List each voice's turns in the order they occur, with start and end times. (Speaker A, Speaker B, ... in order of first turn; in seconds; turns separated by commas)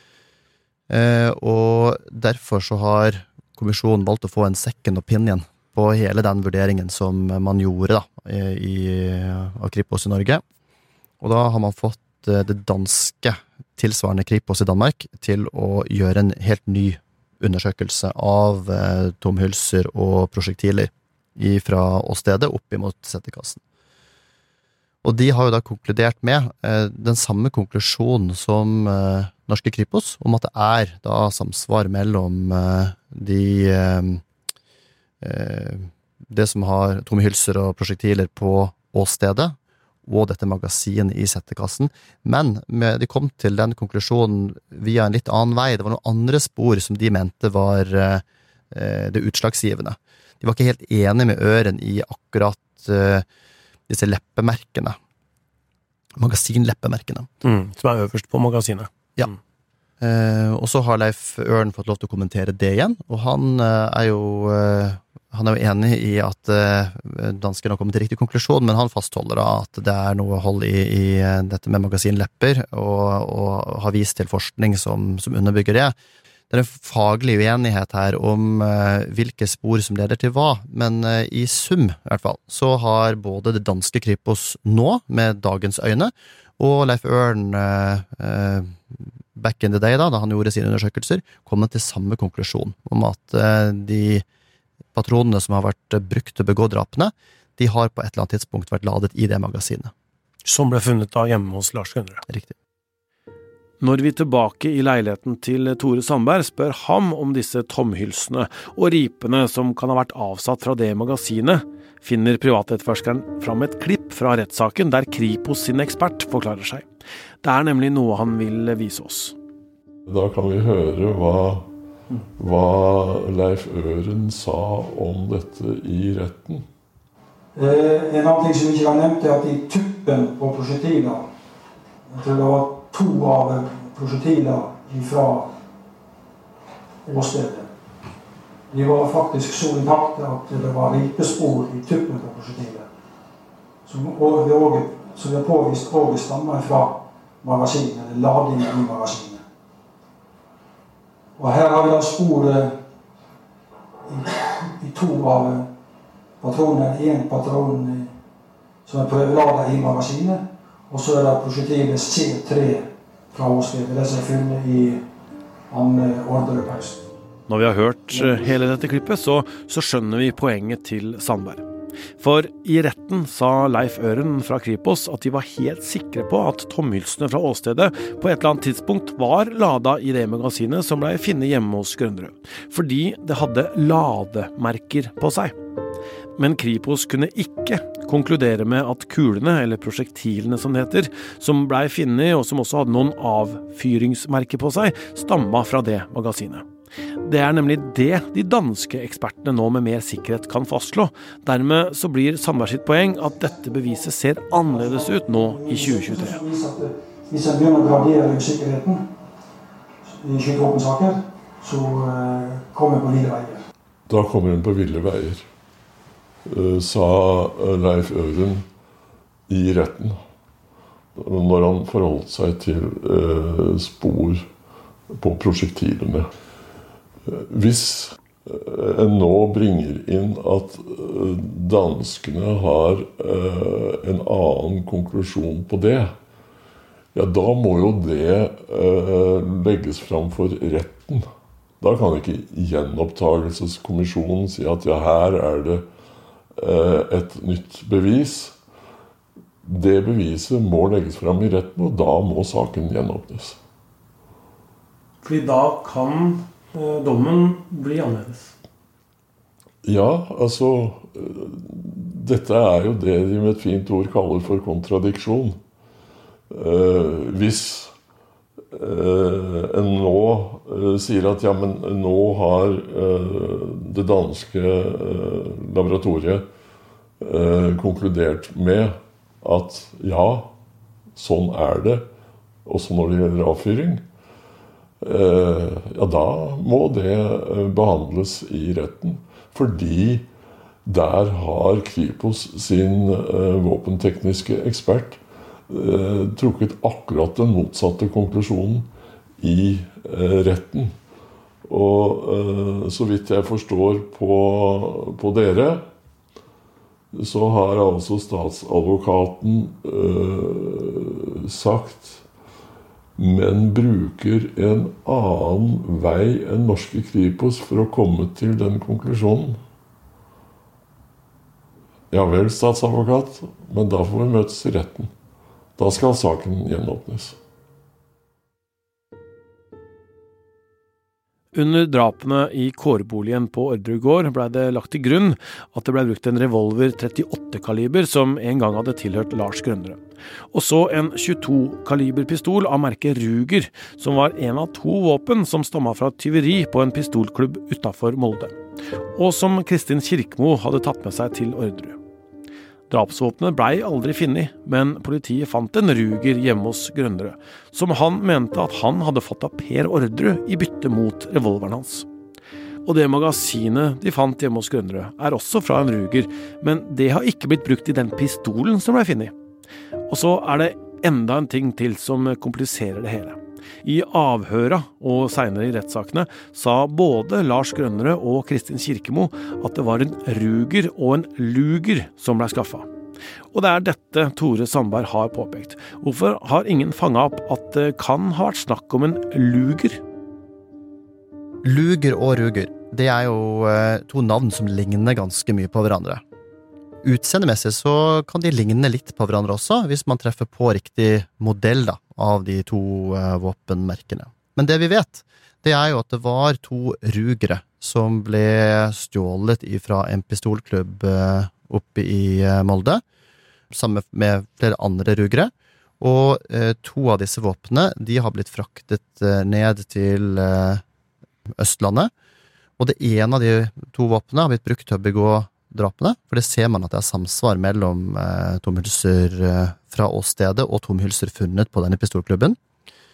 Speaker A: 0.9-10.4, Speaker A: 11.2-23.6, Speaker A: 25.0-34.2, Speaker A: 35.2-53.2, Speaker A: 53.9-55.0, Speaker A: 56.2-57.3, Speaker B: 57.4-59.4, Speaker A: 60.0-75.9, Speaker A: 76.5-94.2, Speaker A: 94.9-99.9, Speaker B: 100.4-102.2, Speaker A: 102.3-102.5, Speaker B: 103.8-116.8, Speaker B: 117.4-119.3, Speaker C: 120.1-121.7, Speaker C: 122.4-126.6, Speaker D: 127.5-131.2, Speaker D: 132.1-135.5, Speaker D: 137.1-137.7, Speaker D: 138.7-142.9, Speaker D: 143.8-149.4, Speaker D: 151.4-152.7, Speaker D: 154.1-155.7, Speaker D: 156.4-158.1, Speaker D: 158.8-165.0, Speaker D: 165.7-167.0, Speaker B: 167.5-171.6, Speaker D: 168.1-168.4, Speaker B: 172.2-185.5, Speaker B: 186.4-196.6, Speaker B: 197.2-206.4, Speaker D: 204.7-209.1, Speaker D: 210.1-213.6, Speaker C: 214.1-215.4, Speaker C: 216.4-218.6, Speaker C: 219.5-220.2, Speaker C: 221.2-224.4, Speaker C: 225.1-226.3, Speaker C: 227.3-236.1, Speaker C: 237.1-241.3, Speaker C: 241.8-245.8, Speaker C: 246.6-248.5, Speaker C: 249.6-253.6, Speaker B: 255.2-258.5, Speaker C: 259.8-265.6, Speaker C: 266.5-267.9, Speaker C: 268.7-276.4, Speaker C: 277.2-280.5, Speaker C: 281.1-282.1, Speaker C: 282.6-284.0, Speaker C: 285.0-290.3, Speaker C: 290.9-295.2, Speaker C: 295.7-298.9, Speaker C: 299.4-300.9, Speaker C: 301.7-305.9, Speaker C: 307.1-312.2, Speaker C: 313.2-319.6, Speaker C: 322.1-325.1, Speaker C: 325.8-327.4, Speaker B: 331.5-340.0, Speaker B: 340.5-348.5, Speaker B: 349.2-352.0, Speaker B: 352.9-362.1, Speaker B: 362.9-369.3, Speaker B: 370.1-382.9, Speaker B: 383.5-390.0, Speaker A: 391.6-396.2, Speaker A: 397.0-413.0, Speaker A: 413.7-420.8, Speaker A: 421.6-422.1, Speaker A: 422.8-432.6